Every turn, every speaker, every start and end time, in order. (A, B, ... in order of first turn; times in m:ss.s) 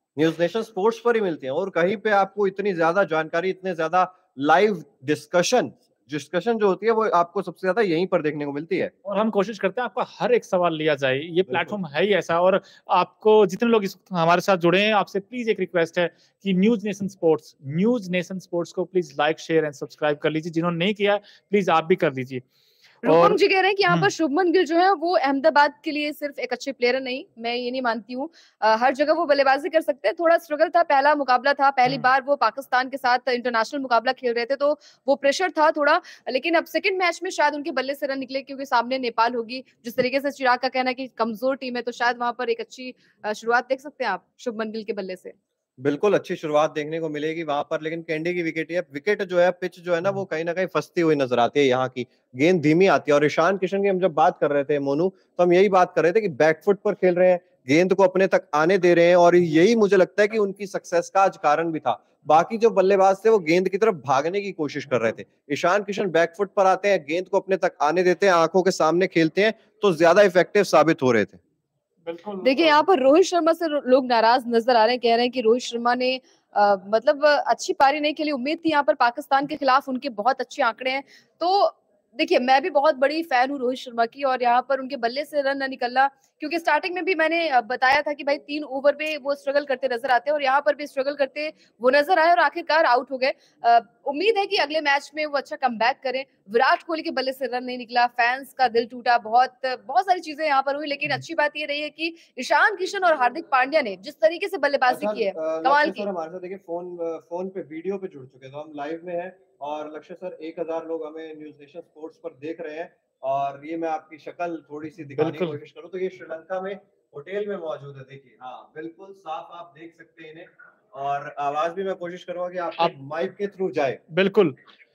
0:00.2-0:08.9 A
0:09.0-0:22.4 B
0:11.5-0:11.7 A
0:23.0-0:24.1 B
0:23.0-0:45.3 C
0:45.8-1:11.4 A
1:12.0-1:12.8 B
1:12.4-1:46.0 C
1:44.9-2:04.0 A
1:55.2-1:55.6 B
2:04.1-2:04.6 B